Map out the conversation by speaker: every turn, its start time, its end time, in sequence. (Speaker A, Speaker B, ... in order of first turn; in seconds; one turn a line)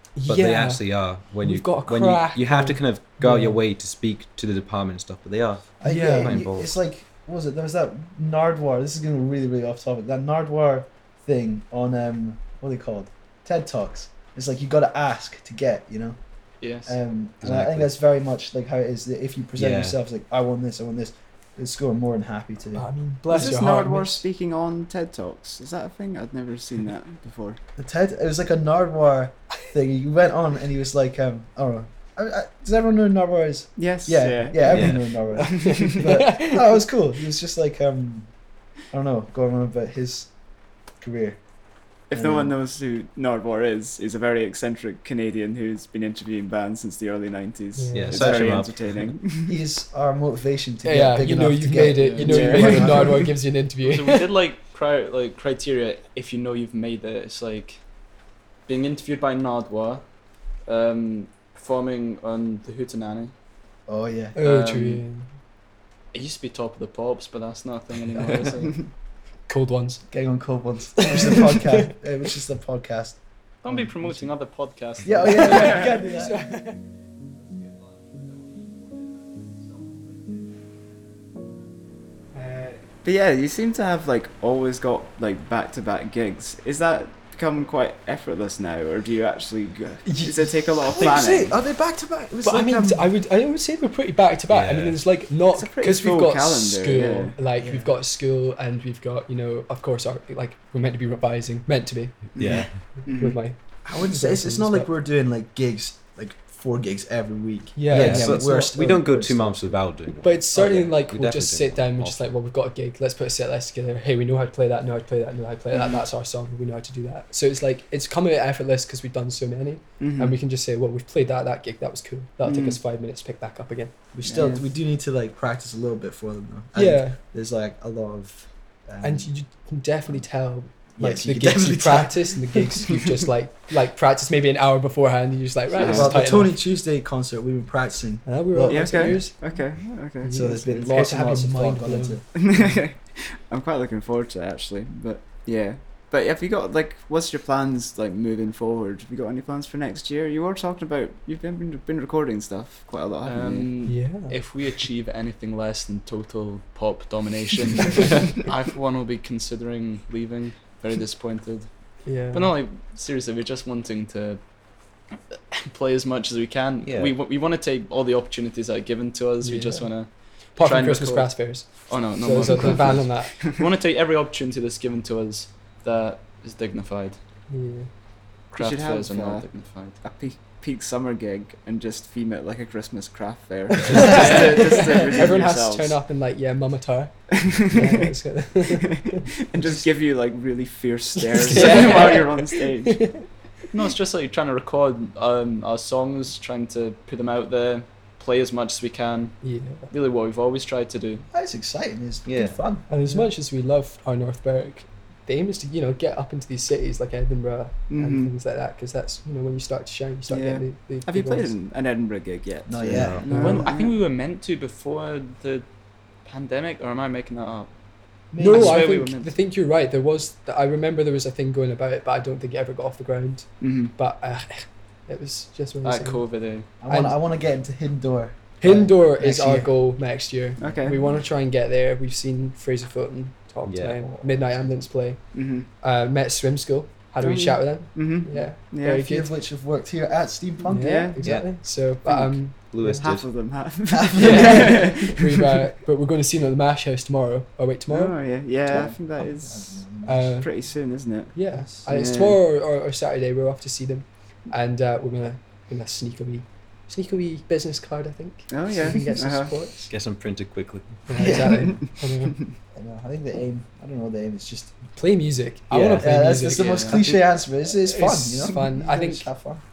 Speaker A: 0.1-0.8
Speaker B: 0.2-6.7
Speaker A: 1.4-3.6
Speaker C: 5.8-16.2
Speaker A: 5.8-6.4
Speaker D: 16.6-17.0
Speaker C: 16.8-23.5
Speaker B: 17.4-17.9
Speaker B: 19.6-19.9
Speaker A: 22.7-24.2
Speaker E: 23.3-27.6
Speaker C: 27.8-38.3
Speaker E: 33.8-36.0
Speaker B: 34.6-35.0
Speaker A: 35.4-36.8
Speaker C: 38.9-40.3
Speaker C: 41.0-41.4
Speaker E: 42.1-49.5
Speaker C: 42.1-42.5
Speaker A: 47.8-48.5
Speaker B: 47.9-49.1
Speaker C: 49.4-53.3
Speaker A: 50.8-54.2
Speaker D: 51.9-52.8
Speaker E: 52.2-53.2
Speaker D: 53.8-57.8
Speaker D: 58.6-60.1
Speaker D: 60.6-63.3
Speaker C: 63.9-64.3
Speaker A: 64.3-65.3
Speaker D: 64.4-65.0
Speaker D: 66.1-68.8
Speaker A: 69.5-70.1
Speaker C: 70.1-74.3
Speaker A: 71.0-71.9
Speaker D: 73.6-75.8
Speaker C: 75.0-76.4
Speaker A: 75.3-76.8
Speaker E: 75.6-75.9
Speaker A: 82.3-82.7
Speaker E: 83.0-91.6
Speaker A: 90.0-90.4
Speaker C: 90.8-93.1
Speaker A: 92.4-102.3
Speaker B: 94.5-95.2
Speaker E: 95.5-97.3
Speaker C: 97.6-97.9
Speaker B: 102.3-102.8
Speaker E: 102.3-103.4
Speaker A: 102.8-104.9
Speaker C: 103.8-109.6
Speaker A: 107.8-108.7
Speaker B: 107.9-112.3
Speaker A: 110.2-123.9
Speaker E: 115.7-116.0
Speaker E: 120.0-120.3
Speaker E: 122.4-122.8
Speaker C: 124.1-129.3
Speaker E: 124.2-124.6
Speaker A: 126.7-127.2
Speaker A: 129.0-136.6
Speaker C: 131.0-132.9
Speaker E: 135.7-136.2
Speaker C: 135.8-139.3
Speaker A: 138.2-139.4
Speaker E: 138.7-140.4
Speaker A: 140.2-142.2
Speaker C: 140.3-142.4
Speaker E: 142.3-153.7
Speaker D: 153.2-164.4
Speaker A: 153.8-154.4
Speaker A: 162.0-162.5
Speaker D: 165.1-177.2
Speaker B: 166.8-167.2
Speaker A: 169.4-173.4
Speaker E: 172.4-172.9
Speaker A: 177.5-177.9
Speaker D: 178.5-180.0
Speaker E: 178.6-186.0
Speaker A: 183.8-189.8
Speaker D: 184.0-185.1
Speaker E: 187.5-188.0
Speaker E: 188.9-193.2
Speaker A: 191.2-193.2
Speaker D: 191.6-192.1
Speaker D: 193.7-201.2
Speaker A: 199.4-199.9
Speaker C: 201.3-202.9
Speaker B: 202.2-202.6
Speaker A: 202.9-211.5
Speaker E: 207.9-208.3
Speaker E: 210.3-213.9
Speaker C: 212.7-213.5
Speaker B: 212.9-213.3
Speaker A: 213.3-213.7
Speaker D: 213.3-215.6
Speaker D: 216.2-217.7
Speaker C: 218.3-218.9
Speaker A: 218.4-227.2
Speaker D: 218.4-219.3
Speaker E: 223.6-223.9
Speaker D: 225.8-226.7
Speaker C: 226.8-229.8
Speaker A: 228.6-239.3
Speaker C: 230.6-231.2
Speaker E: 230.6-231.0
Speaker B: 233.6-234.2
Speaker E: 235.3-235.7
Speaker E: 237.2-239.0
Speaker C: 238.3-241.0
Speaker A: 240.6-243.1
Speaker E: 240.8-241.2
Speaker B: 241.2-241.6
Speaker E: 242.1-242.3
Speaker B: 242.5-243.3
Speaker E: 243.0-245.3
Speaker C: 243.9-245.1
Speaker A: 244.2-248.2
Speaker E: 247.9-249.8
Speaker C: 248.7-250.4
Speaker A: 250.0-250.5
Speaker E: 250.4-252.4
Speaker A: 251.3-259.9
Speaker C: 251.5-251.9
Speaker E: 258.5-259.5
Speaker B: 259.9-261.3
Speaker A: 261.1-262.4
Speaker C: 261.1-261.8
Speaker E: 261.6-261.9
Speaker C: 262.7-264.8
Speaker A: 264.9-269.3
Speaker B: 265.7-266.2
Speaker C: 266.0-269.6
Speaker D: 266.5-267.0